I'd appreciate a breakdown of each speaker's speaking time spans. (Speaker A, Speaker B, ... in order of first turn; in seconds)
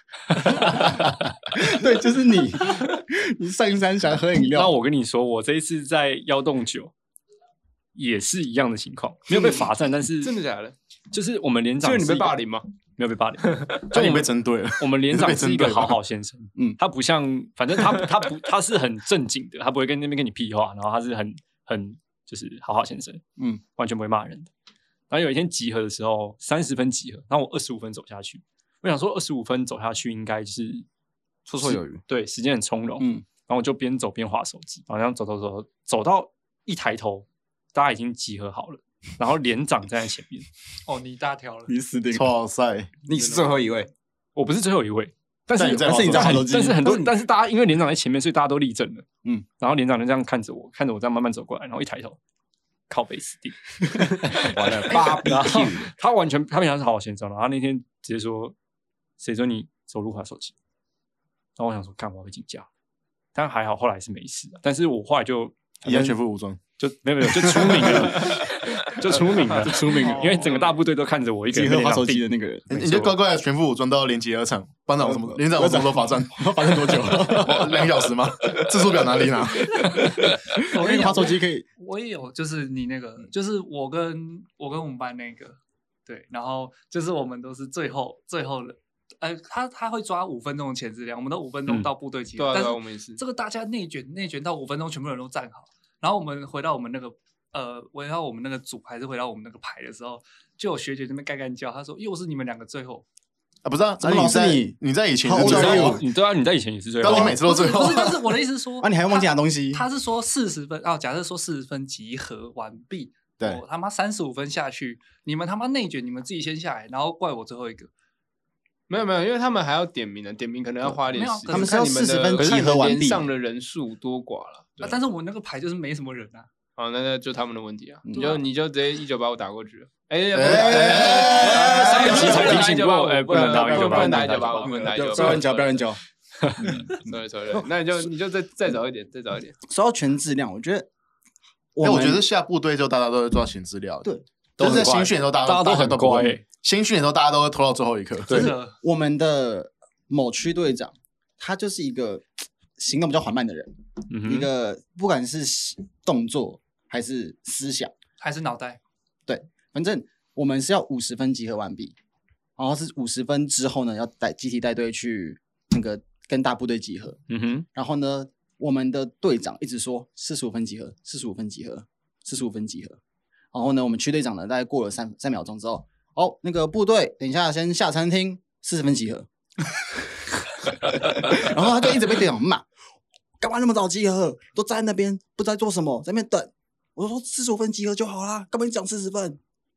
Speaker A: 0.4-4.7, 23.4-23.6, 33.0-33.2, 41.7-42.3, 45.8-47.1, 65.8-66.2, 67.8-68.1, 69.6-70.4, 71.5-72.7, 75.0-77.8, 80.0-81.7, 104.0-106.0, 108.8-109.8, 121.5-123.3, 128.1-128.4, 130.4-132.7, 133.3-136.0, 136.6-137.7, 139.7-140.9, 141.7-142.2, 144.0-144.9, 148.3-152.2, 152.8-157.9, 159.3-161.9, 162.6-173.0, 173.5-182.7, 183.4-189.4
Speaker B: 4.5-6.9, 7.9-10.3, 11.1-12.3, 13.0-23.2, 23.8-24.5, 25.1-30.9, 31.6-40.5, 44.4-49.1, 49.6-52.2, 52.9-58.5, 59.2-60.5, 61.6-62.7, 63.3-65.6, 66.8-73.1, 105.4-107.4, 131.5-135.3, 136.4-136.8, 144.6-146.4, 154.1-154.5, 167.3-167.7
Speaker C: 10.2-10.8, 11.8-12.7, 13.4-13.7, 92.4-93.2, 118.9-124.8, 126.8-135.9, 136.8-139.6
Speaker D: 13.9-16.0, 42.1-42.9, 45.5-46.5, 54.6-55.2, 65.8-66.6, 67.2-68.0, 72.7-80.3, 103.6-106.0, 107.0-108.3, 130.3-132.5, 141.8-148.5
Speaker E: 31.4-32.0, 43.0-43.9, 54.7-55.9
Speaker F: 40.9-41.7, 70.0-70.8, 80.7-103.0, 107.2-117.9, 121.1-122.1, 124.8-126.5, 148.3-148.8, 158.2-158.8